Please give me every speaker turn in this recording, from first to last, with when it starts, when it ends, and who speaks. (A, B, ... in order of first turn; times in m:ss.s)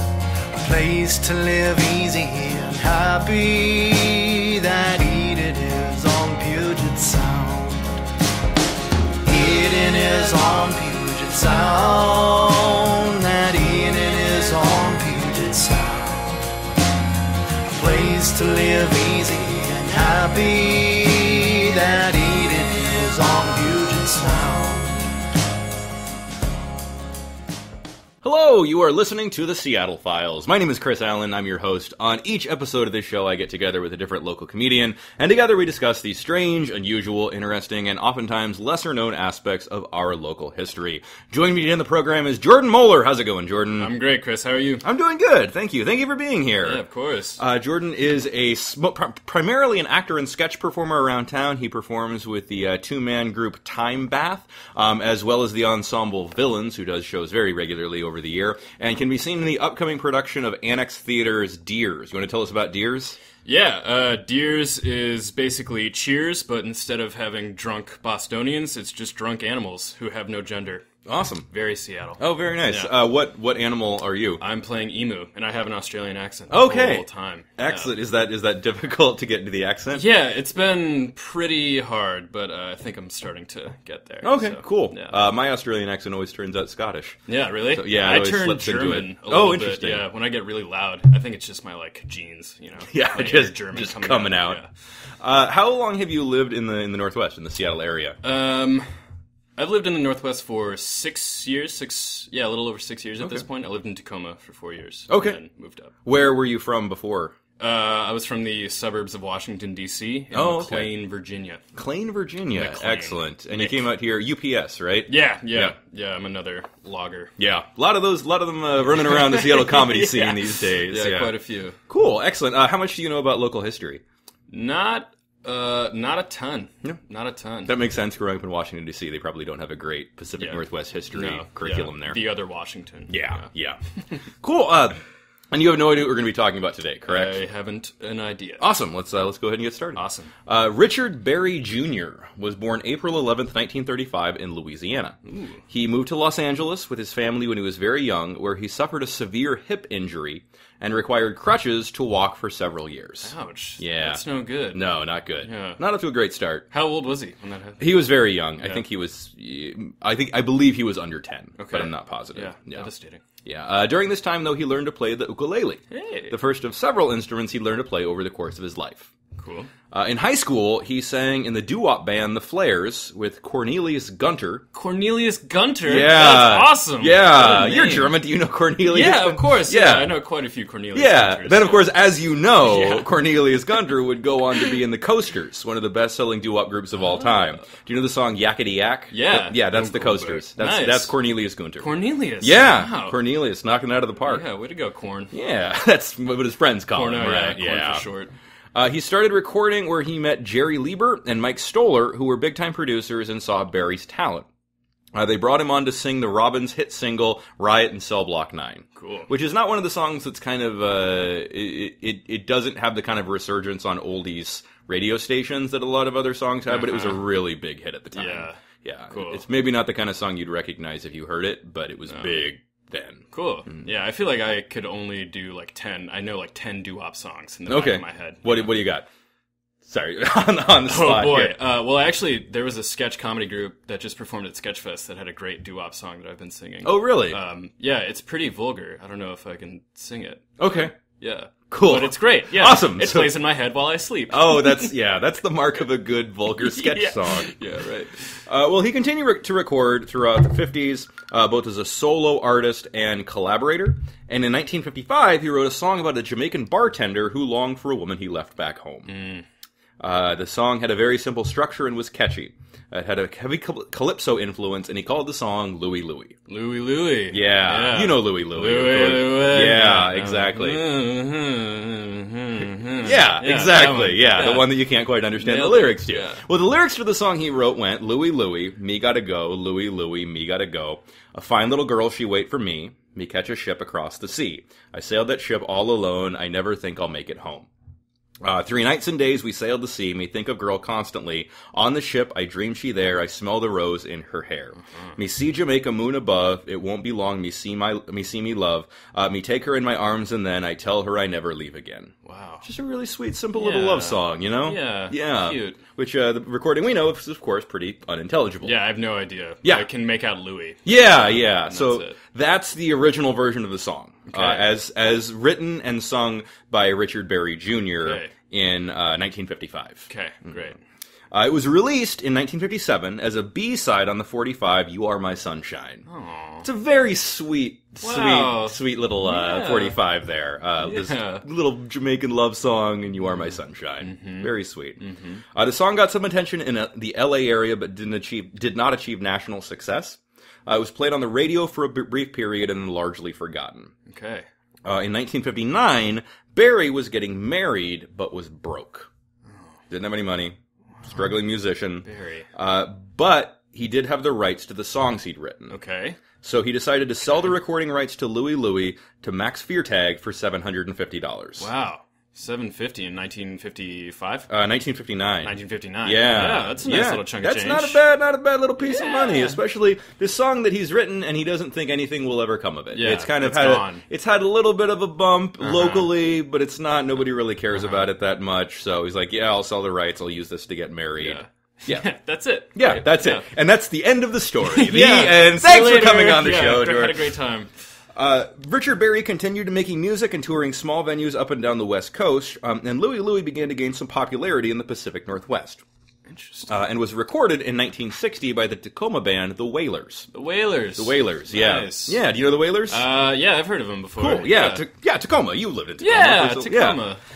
0:00.5-0:08.0 A
0:09.2-0:16.4 A
0:17.7-0:25.1 A
0:28.2-0:43.9 B
0:43.8-0:44.8 C
0:44.8-0:46.8 B
0:46.6-0:47.4 C
0:47.4-1:03.2 B
1:03.4-1:10.9 C
1:11.1-1:11.5 B
1:11.5-1:12.9 C
1:12.2-1:14.4 B
1:14.4-1:17.9 C
1:16.5-1:17.1 B
1:17.6-1:20.1 B
1:19.9-1:25.2 C
1:24.2-1:27.2 B
1:27.3-1:34.7 C
1:27.7-1:30.1 B
1:32.9-1:34.6 B
1:35.2-1:38.2 B
1:38.2-1:38.9 C
1:39.6-1:45.9 C
1:45.1-1:45.4 B
1:46.0-1:47.4 B
1:47.6-1:51.6 C
1:50.3-1:50.9 B
1:51.8-1:55.8 B
1:52.5-1:53.9 C
1:55.1-1:57.3 C
1:57.4-2:01.3 B
1:58.9-2:01.8 C
2:01.9-2:04.0 B
2:04.5-2:07.8 C
2:07.7-2:12.2 B
2:10.4-2:13.4 C
2:13.1-2:13.8 B
2:14.4-2:15.0 B
2:15.5-2:17.4 B
2:17.1-2:18.6 C
2:18.6-2:25.2 B
2:20.0-2:20.3 C
2:25.3-2:25.6 C
2:25.7-2:36.7 B
2:33.2-2:34.9 C
2:35.4-2:35.8 C
2:36.7-2:37.9 C
2:37.8-2:42.9 B
2:38.6-2:38.8 C
2:41.6-2:43.2 C
2:43.4-2:49.1 B
2:45.9-2:46.4 C
2:49.4-2:49.7 C
2:49.9-2:54.6 B
2:54.7-2:58.2 C
2:55.9-3:00.1 B
2:58.9-3:01.9 C
3:01.0-3:14.5 B
3:02.6-3:03.1 C
3:07.0-3:07.7 C
3:09.1-3:11.2 C
3:11.8-3:13.2 C
3:14.2-3:15.3 C
3:15.3-3:18.0 B
3:16.9-3:18.3 C
3:18.7-3:24.5 B
3:25.1-3:43.8 B
3:29.0-3:29.3 C
3:36.7-3:37.3 C
3:38.1-3:39.4 C
3:42.1-3:42.5 C
3:43.3-3:48.8 C
3:47.7-3:49.1 B
3:49.8-3:51.6 B
3:50.8-4:00.6 C
3:56.8-3:57.4 B
4:00.6-4:00.9 B
4:01.2-4:04.9 C
4:01.7-4:03.3 B
4:04.3-4:07.6 B
4:06.6-4:08.4 C
4:08.5-4:19.1 B
4:19.1-4:19.4 C
4:20.0-4:26.4 B
4:26.5-4:34.7 C
4:27.3-4:30.8 B
4:33.0-4:47.7 B
4:35.4-4:36.4 C
4:48.4-5:02.1 B
5:02.2-5:02.6 C
5:02.6-5:08.8 B
5:03.6-5:05.8 C
5:08.6-5:12.2 C
5:10.8-5:20.6 B
5:14.3-5:14.7 C
5:18.0-5:18.3 C
5:20.1-5:20.8 C
5:21.3-5:26.0 B
5:26.1-5:26.7 C
5:26.6-5:35.0 B
5:28.0-5:30.0 C
5:30.8-5:31.4 C
5:34.0-5:35.4 C
5:35.5-5:43.9 B
5:44.1-5:44.5 C
5:44.8-5:49.1 B
5:49.5-5:49.8 C
5:49.9-5:55.8 B
5:52.0-5:52.5 C
5:55.7-5:56.2 C
5:56.4-6:01.7 B
6:01.6-6:04.5 C
6:04.5-6:22.1 B
6:05.4-6:08.0 C
6:08.8-6:09.6 C
6:12.9-6:14.0 C
6:15.6-6:16.1 C
6:21.2-6:23.5 C
6:22.8-6:27.3 B
6:24.6-6:27.7 C
6:28.2-6:35.8 B
6:36.3-6:36.7 C
6:36.7-6:40.3 B
6:40.3-6:42.2 C
6:41.0-6:43.0 B
6:42.9-6:44.9 C
6:44.2-6:47.0 B
6:46.0-6:47.2 C